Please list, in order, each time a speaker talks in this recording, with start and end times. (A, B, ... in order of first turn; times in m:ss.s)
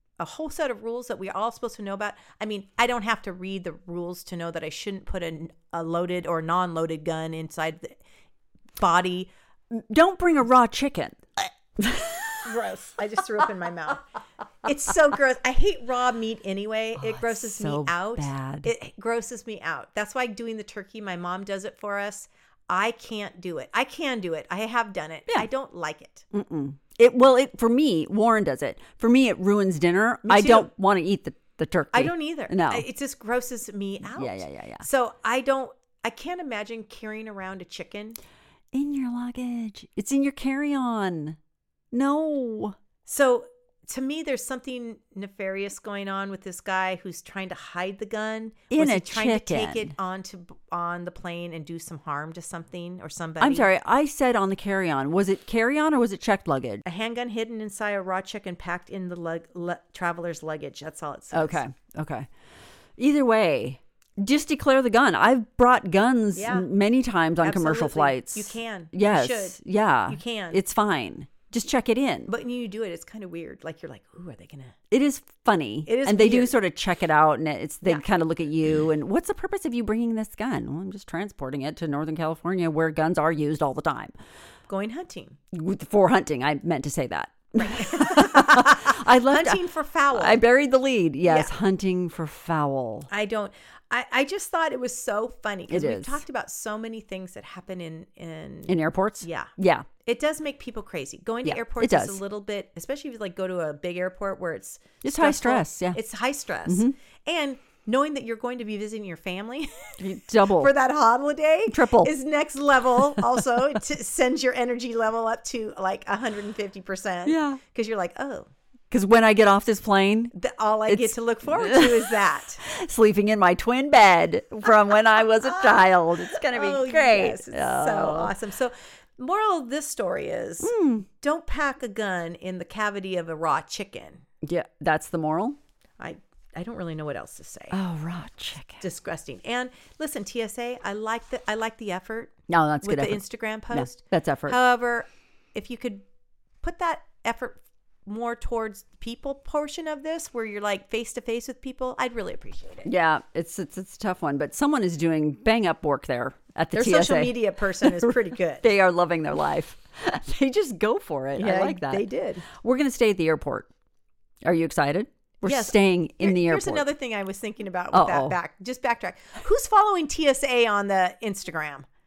0:00.2-0:08.0 A
0:08.8-0:09.3 A
0:09.7-0:12.6 B
0:12.4-0:14.1 A
0:14.6-0:26.3 A
0:17.0-0:18.7 B
0:26.3-0:32.9 B
0:30.2-0:30.7 A
0:31.9-0:38.2 A
0:34.0-0:34.9 B
0:38.7-0:41.4 B
0:41.9-0:42.8 B
0:43.1-0:53.7 A
0:48.7-0:49.9 B
0:53.4-0:56.8 B
0:56.8-1:01.6 A
1:01.3-1:02.3 B
1:03.0-1:12.3 B
1:06.3-1:06.7 A
1:07.4-1:10.6 A
1:12.3-1:14.8 A
1:14.9-1:24.1 B
1:15.9-1:16.5 A
1:24.7-1:25.4 A
1:25.5-1:33.1 B
1:27.6-1:30.4 A
1:31.2-1:31.5 A
1:33.1-1:39.5 A
1:35.7-1:36.2 B
1:38.7-1:39.9 B
1:40.0-1:58.5 A
1:41.4-1:42.2 B
1:45.0-1:46.0 B
1:46.7-1:46.9 B
1:50.0-1:50.7 B
1:51.7-1:52.1 B
1:57.3-1:57.6 B
1:58.9-2:00.3 B
2:00.3-2:02.6 A
2:00.9-2:08.3 B
2:05.4-2:14.2 A
2:10.6-2:11.1 B
2:14.4-2:15.6 B
2:16.0-2:17.8 A
2:17.7-2:18.8 B
2:18.8-2:26.0 A
2:22.5-2:24.6 B
2:26.6-2:32.9 A
2:32.9-2:43.7 B
2:36.7-2:38.7 A
2:41.4-2:42.5 A
2:44.4-2:46.8 B
2:45.4-2:51.9 A
2:47.9-2:48.4 B